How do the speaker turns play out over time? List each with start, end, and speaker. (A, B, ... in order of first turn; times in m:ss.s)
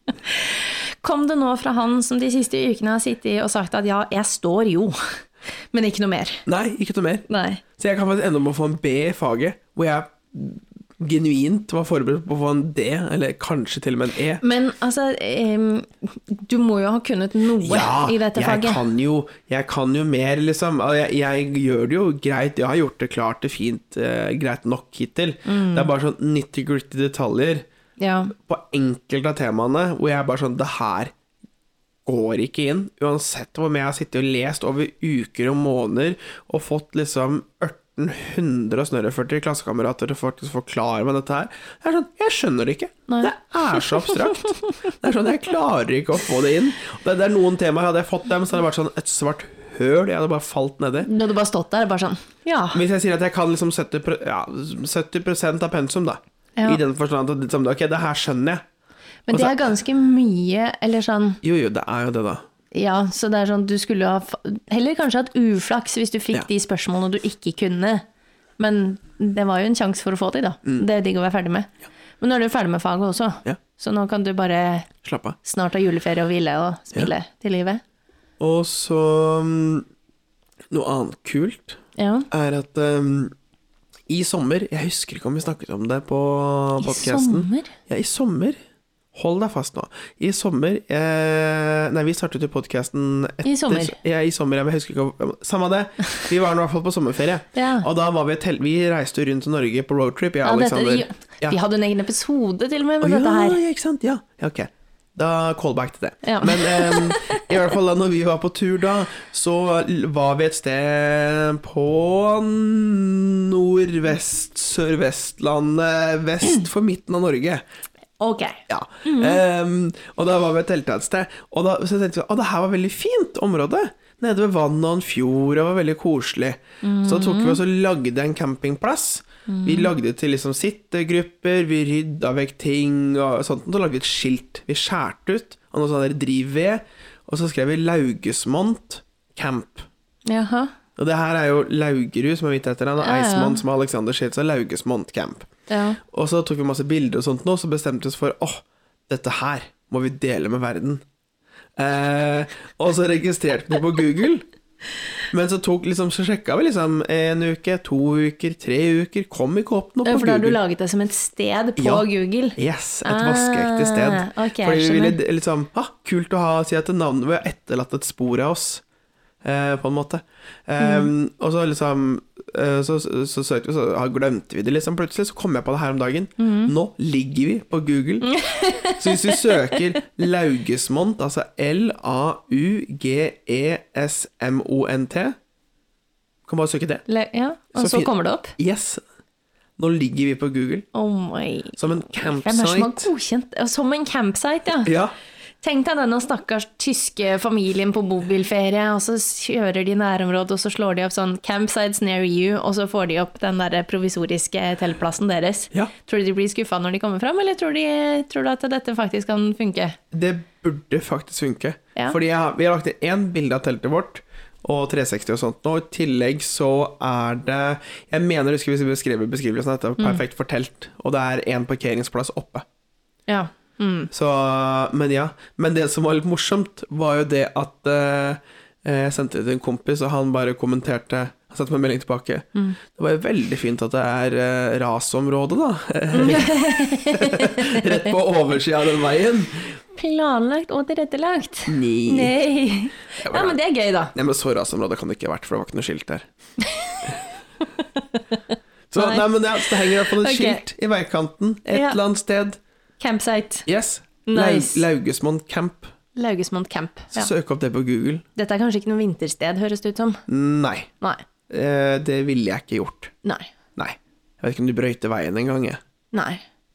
0:00.2-0:05.2 A
0:05.7-0:06.4 A
0:06.4-0:07.2 B
0:07.3-0:07.6 A
0:07.8-0:14.4 B
0:14.4-0:18.8 A
0:17.6-0:27.6 B
0:25.4-0:25.9 A
0:28.0-0:28.3 A
0:28.3-0:31.1 B
0:32.0-0:51.1 B
0:43.1-0:44.4 A
0:51.0-0:52.8 A
0:52.7-0:58.6 B
0:59.3-1:01.4 A
0:59.3-0:59.6 B
1:01.4-1:02.4 B
1:02.7-1:08.0 A
1:08.6-1:14.9 A
1:15.0-1:15.4 B
1:15.4-1:17.8 A
1:18.4-1:19.8 B
1:20.7-1:23.3 B
1:22.0-1:22.3 A
1:24.1-1:28.6 B
1:26.8-1:27.7 A
1:29.1-1:41.6 B
1:33.4-1:34.0 A
1:37.5-1:37.9 A
1:40.4-1:43.6 A
1:43.0-1:57.6 B
1:46.2-1:47.4 A
1:58.2-1:59.4 A
1:58.7-2:19.9 B
2:06.8-2:07.6 A
2:09.5-2:09.9 A
2:20.2-2:20.7 A
2:21.0-2:25.5 B
2:23.0-2:23.6 A
2:25.7-2:26.0 A
2:26.1-2:31.0 B
2:31.8-2:34.4 B
2:35.3-2:40.6 B
2:40.0-2:45.2 A
2:41.8-2:48.8 B
2:49.4-2:58.3 B
2:50.8-2:51.1 A
2:56.4-2:56.7 A
2:58.2-2:59.8 A
2:59.0-3:05.4 B
3:06.5-3:07.0 B
3:07.1-3:08.5 A
3:07.8-3:09.0 B
3:09.8-3:10.8 B
3:10.9-3:14.9 A
3:11.8-3:13.1 B
3:14.8-3:15.1 B
3:15.6-3:30.0 A
3:30.1-3:42.6 B
3:43.3-3:44.1 A
3:44.1-3:59.8 B
3:56.1-3:58.1 A
3:59.9-4:04.1 A
4:01.7-4:02.4 B
4:03.2-4:03.6 B
4:04.1-4:06.2 B
4:06.6-4:07.1 A
4:07.8-4:08.4 A
4:08.9-4:12.6 B
4:09.0-4:10.6 A
4:11.7-4:12.0 A
4:13.0-4:13.7 A
4:13.7-4:15.9 B
4:14.2-4:14.8 A
4:16.2-4:17.3 A
4:17.1-4:18.2 B
4:18.4-4:20.2 A
4:20.3-4:20.9 B
4:21.5-4:23.1 B
4:23.2-4:23.5 A
4:23.8-4:25.8 B
4:26.1-4:26.4 A